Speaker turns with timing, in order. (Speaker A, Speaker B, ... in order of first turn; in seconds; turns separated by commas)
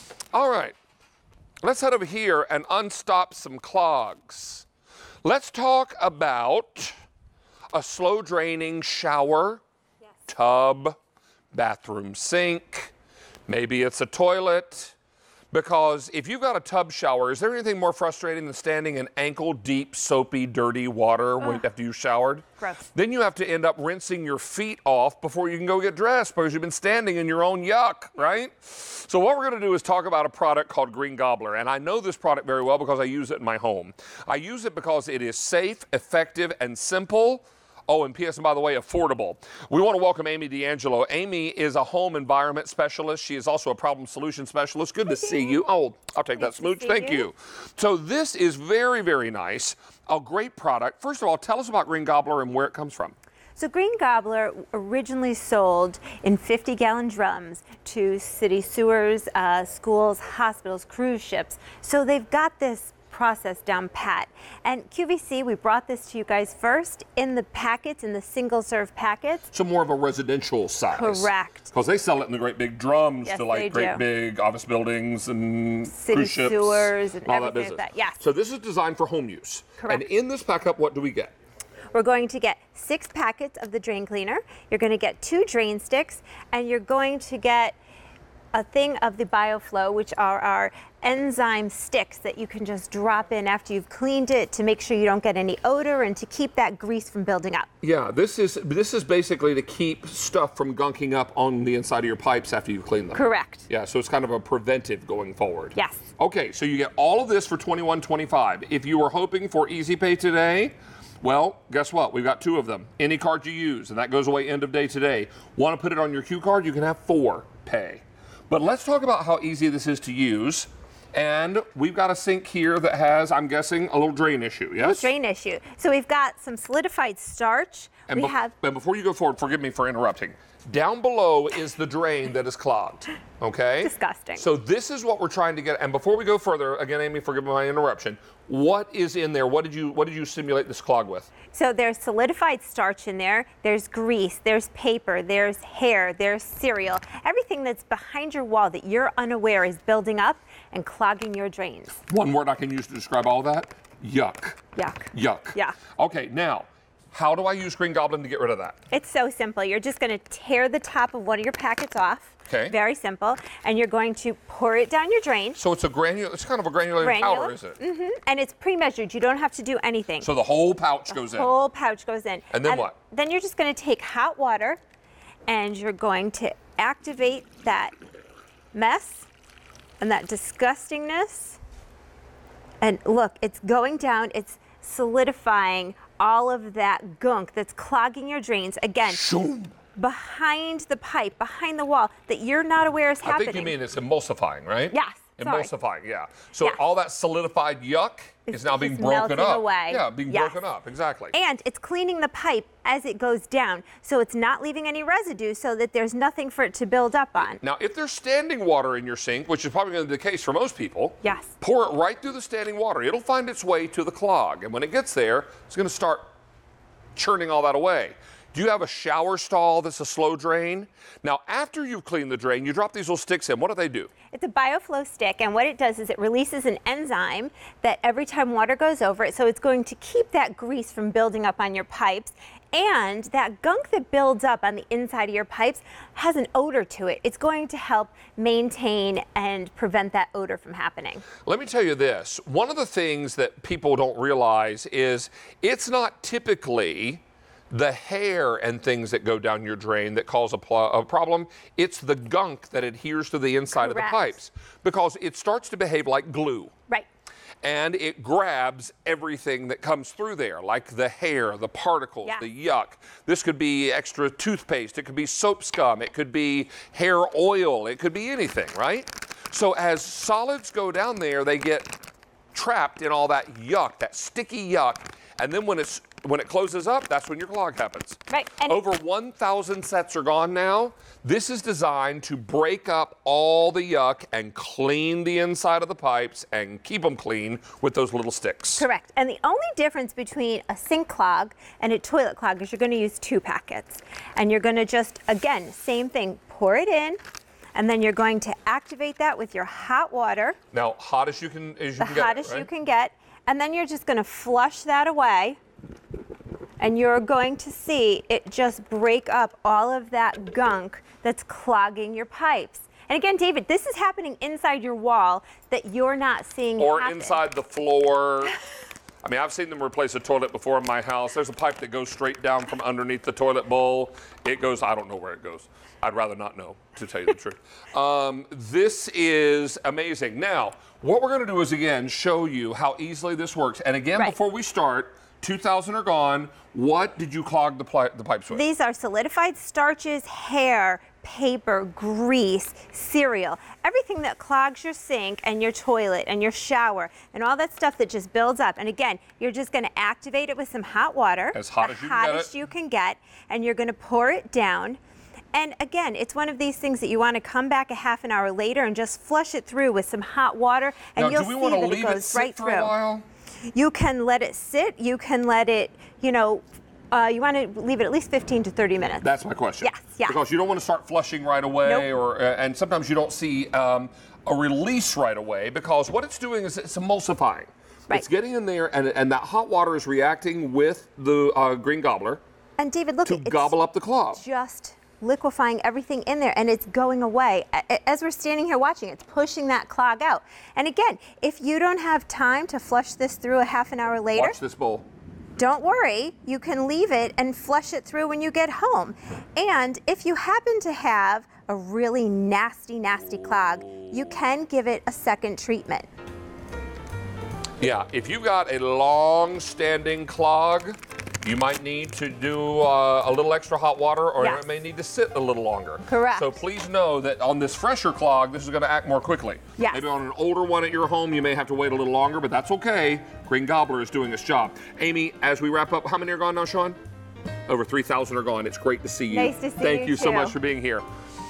Speaker A: 0.3-0.8, Speaker A: 1.6-4.7, Speaker A: 5.2-6.9, Speaker A: 7.7-9.6, Speaker A: 10.3-10.9, Speaker A: 11.5-12.9, Speaker A: 13.5-14.9, Speaker A: 15.5-53.1, Speaker B: 22.6-22.9, Speaker B: 45.1-45.5, Speaker B: 46.4-47.3, Speaker B: 53.5-69.5, Speaker A: 69.5-81.3, Speaker B: 70.9-71.7, Speaker B: 73.2-74.0, Speaker B: 75.9-78.2, Speaker B: 79.8-80.1, Speaker B: 81.9-87.8, Speaker B: 88.5-97.7, Speaker A: 97.8-125.1, Speaker B: 103.1-103.7, Speaker B: 105.7-106.0, Speaker B: 124.8-128.5, Speaker A: 128.1-141.3, Speaker B: 133.8-134.4, Speaker B: 141.5-152.0, Speaker A: 152.1-154.6, Speaker B: 154.8-155.8, Speaker A: 155.1-158.8, Speaker B: 158.9-165.6, Speaker A: 162.5-162.7, Speaker A: 165.6-167.8, Speaker B: 167.0-170.3, Speaker A: 170.2-171.5, Speaker B: 171.1-174.8, Speaker A: 172.5-172.9, Speaker B: 175.5-177.9, Speaker B: 178.7-179.3, Speaker B: 180.0-181.6, Speaker B: 182.8-189.2, Speaker A: 189.1-189.7, Speaker B: 189.9-193.8, Speaker A: 193.2-201.3, Speaker B: 194.9-195.7, Speaker B: 198.5-200.6, Speaker B: 201.3-207.6, Speaker A: 207.6-216.3, Speaker B: 211.2-211.5, Speaker A: 217.2-224.1, Speaker B: 224.3-241.2, Speaker A: 241.4-256.7, Speaker B: 253.7-254.3, Speaker A: 257.6-272.0, Speaker A: 272.5-288.9, Speaker B: 278.3-278.8, Speaker B: 288.8-297.2, Speaker B: 297.7-300.6, Speaker A: 300.7-302.7, Speaker B: 302.0-305.6, Speaker B: 306.8-317.4, Speaker A: 316.8-318.6, Speaker A: 319.2-338.6, Speaker B: 338.5-355.0, Speaker A: 351.5-352.5, Speaker B: 355.5-362.9, Speaker A: 361.1-363.2, Speaker B: 363.7-370.4, Speaker A: 369.2-382.4, Speaker B: 371.8-372.1, Speaker B: 382.8-383.7, Speaker A: 383.2-384.4, Speaker B: 384.3-394.6, Speaker A: 394.3-395.1, Speaker B: 395.6-406.1, Speaker A: 407.8-427.0, Speaker B: 416.1-416.5, Speaker B: 419.8-420.0, Speaker A: 427.7-431.0, Speaker B: 429.3-430.6